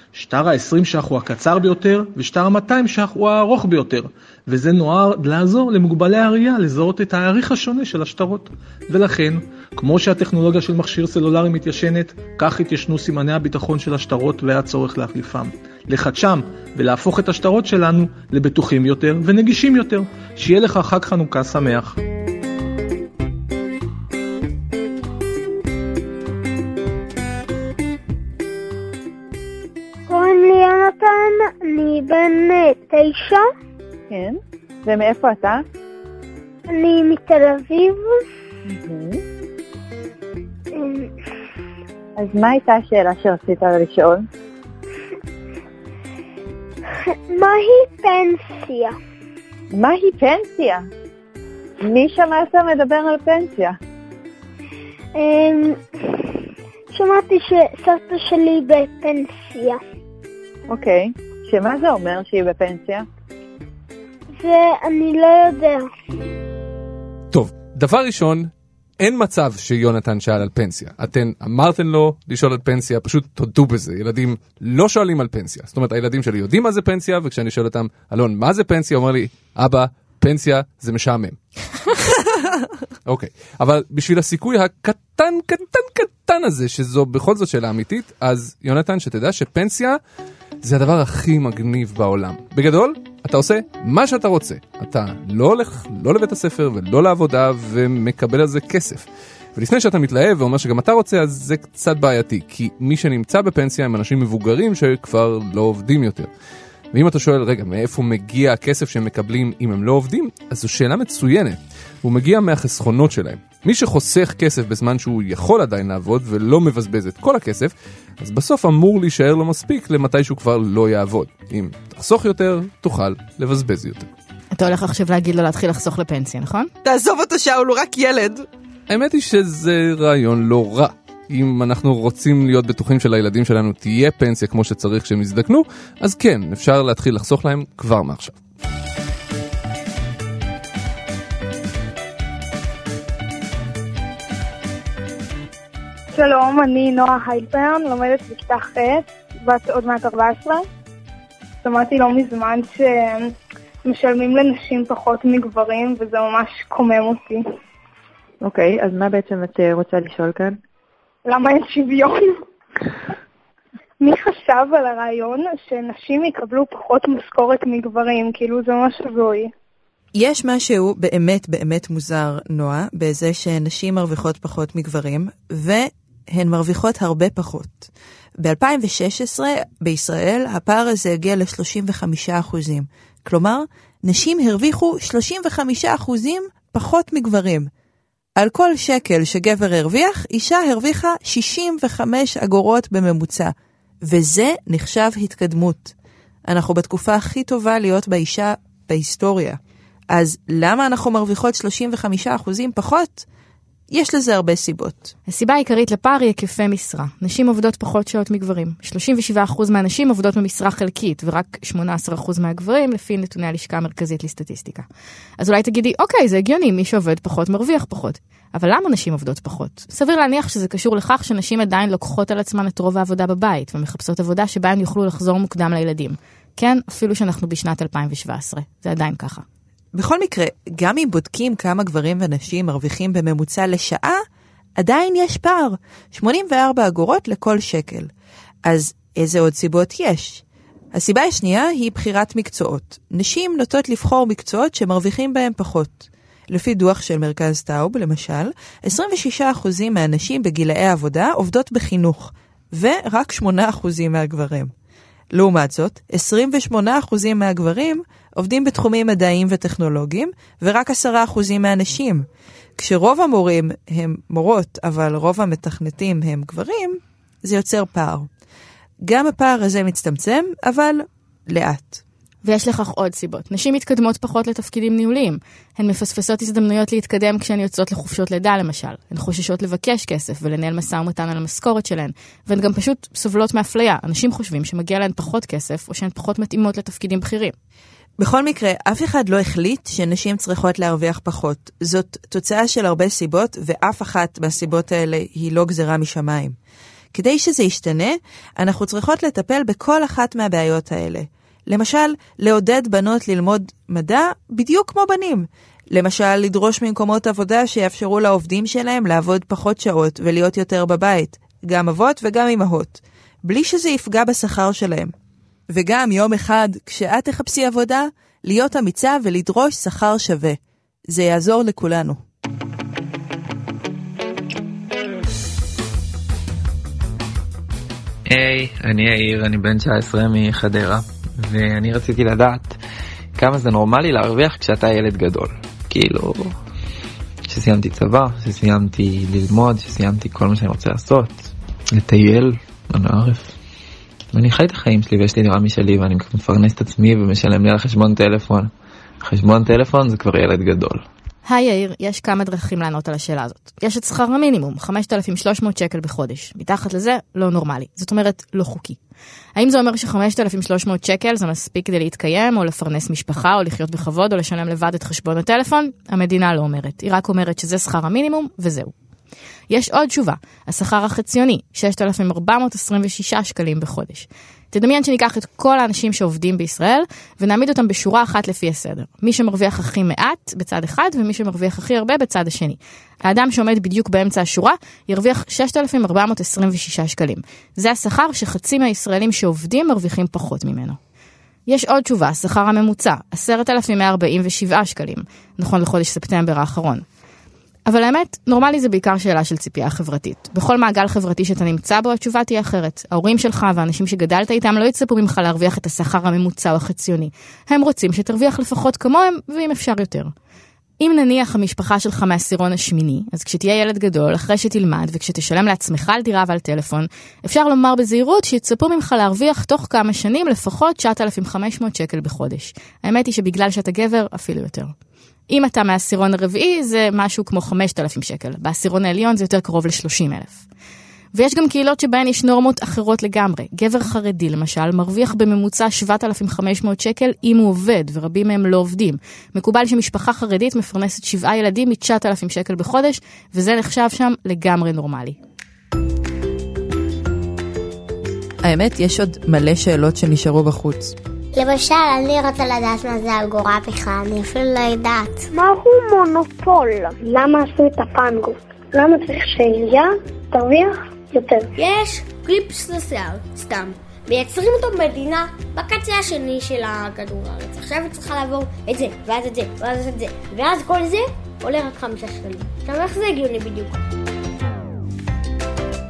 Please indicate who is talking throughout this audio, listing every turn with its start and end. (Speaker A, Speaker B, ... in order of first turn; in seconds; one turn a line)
Speaker A: 0.1-22.0
Speaker B: 30.1-33.5
Speaker C: 34.1-35.6
Speaker B: 36.7-38.2
Speaker C: 38.7-39.2
Speaker B: 40.7-41.1
Speaker C: 42.2-44.2
Speaker B: 47.1-49.0
Speaker C: 49.7-50.9
Speaker C: 51.8-53.8
Speaker B: 55.2-56.4
Speaker B: 56.9-59.8
Speaker C: 60.7-63.1
Speaker B: 64.4-65.9
Speaker D: 67.3-81.4
Speaker D: 83.1-90.0
Speaker D: 90.6-106.3
Speaker D: 106.9-124.1
Speaker E: 124.5-126.7
Speaker F: 126.8-128.5
Speaker D: 128.9-138.4
Speaker G: 146.1-150.7
Speaker G: 151.6-157.5
Speaker C: 158.5-160.2
Speaker G: 161.3-162.4
Speaker G: 164.0-169.5
Speaker F: 170.1-187.7
Speaker F: 188.4-195.9
Speaker F: 196.4-199.6
Speaker F: 200.1-203.3
Speaker F: 203.9-205.1
Speaker E: 205.3-214.9
Speaker E: 215.4-229.4
Speaker F: 229.9-234.2
Speaker F: 234.8-238.1
Speaker F: 238.6-240.4
Speaker F: 240.9-254.7
Speaker F: 255.3-262.3
Speaker F: 262.8-268.3
Speaker F: 269.0-272.0
Speaker E: 272.4-287.5
Speaker F: 288.2-296.6
Speaker F: 297.1-315.1
Speaker F: 315.7-322.2
Speaker H: 328.3-332.8
Speaker H: 333.4-336.6
Speaker H: 337.5-343.5
Speaker H: 344.3-348.7
Speaker H: 349.2-351.1
Speaker E: 351.4-359.0
Speaker E: 359.6-368.9
Speaker E: 369.7-391.0
Speaker E: 391.7-397.1
Speaker E: 397.9-410.3
Speaker E: 411.0-424.9
Speaker E: 425.5-430.6
Speaker E: 431.3-445.4
Speaker F: 448.6-451.1
Speaker I: 451.6-455.4
Speaker B: 455.5-461.7
Speaker J: 461.8-474.0